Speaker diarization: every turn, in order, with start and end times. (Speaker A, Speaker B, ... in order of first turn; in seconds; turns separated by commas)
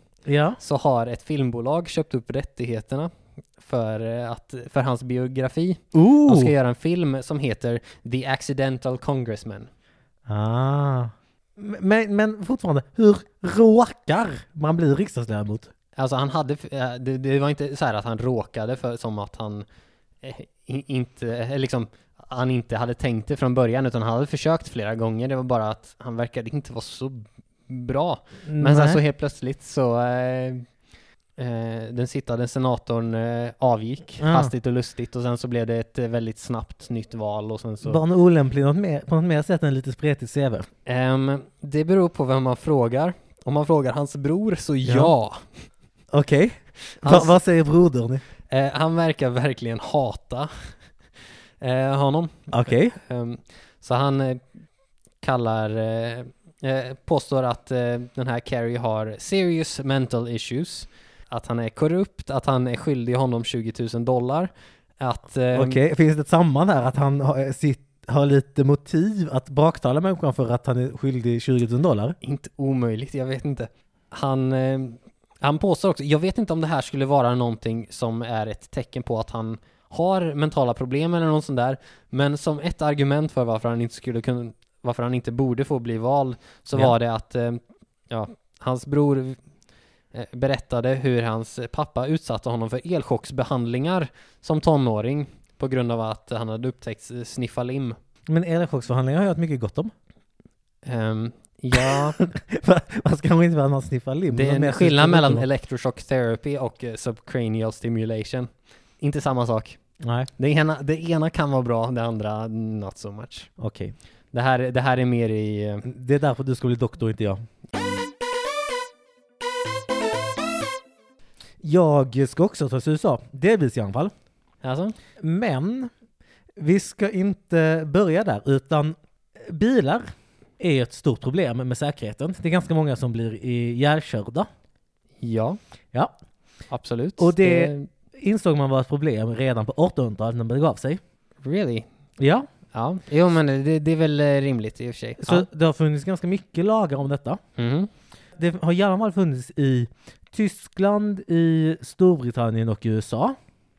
Speaker A: 0.3-0.6, Speaker B: 0.6-9.7, Speaker A: 5.9-6.5, Speaker A: 10.3-15.7, Speaker B: 16.0-19.7, Speaker B: 20.2-30.7, Speaker A: 28.5-29.0, Speaker B: 31.4-38.0, Speaker A: 34.2-34.5, Speaker A: 37.8-40.7, Speaker B: 40.9-45.7, Speaker A: 44.9-45.1, Speaker A: 46.1-48.2, Speaker B: 47.0-47.4, Speaker B: 48.5-50.5, Speaker B: 51.6-54.4, Speaker A: 52.5-53.0, Speaker B: 55.2-65.8, Speaker A: 65.5-72.2, Speaker B: 72.2-89.4, Speaker B: 90.1-98.0, Speaker A: 98.3-99.9, Speaker B: 100.8-102.2, Speaker A: 101.9-105.5, Speaker B: 104.3-109.8, Speaker A: 110.0-110.3, Speaker B: 110.4-113.5, Speaker A: 113.6-114.0, Speaker B: 114.3-115.9, Speaker A: 115.8-117.4, Speaker A: 121.6-124.1, Speaker B: 124.6-125.0, Speaker A: 125.2-125.9, Speaker A: 126.6-130.1, Speaker A: 130.6-134.5, Speaker B: 135.2-135.6, Speaker B: 136.7-137.9, Speaker A: 137.2-141.0, Speaker B: 141.4-141.9, Speaker A: 142.2-142.5, Speaker B: 142.7-145.5, Speaker A: 145.2-147.4, Speaker B: 147.6-147.9, Speaker A: 148.4-153.4